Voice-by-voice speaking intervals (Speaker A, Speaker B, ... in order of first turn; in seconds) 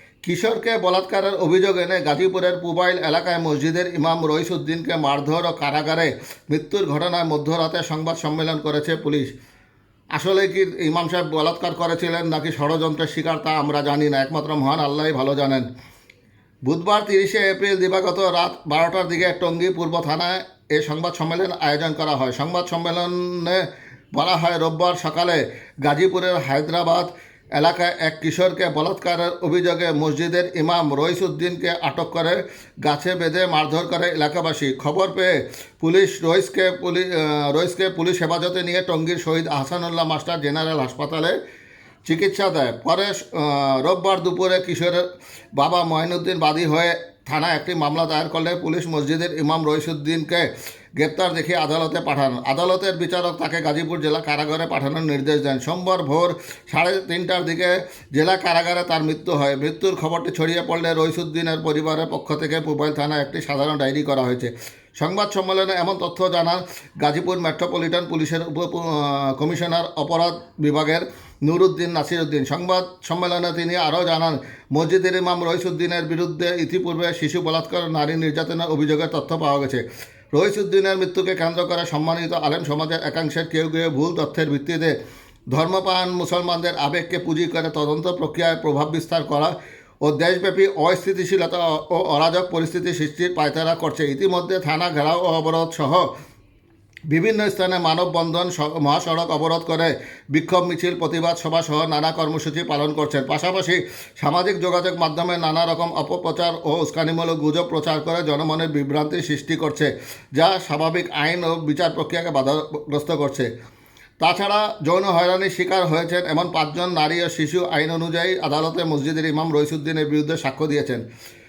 Speaker A: 0.2-9.3, 10.1-15.7, 16.6-41.4, 42.1-85.0, 85.5-96.1, 97.1-113.5, 114.2-121.0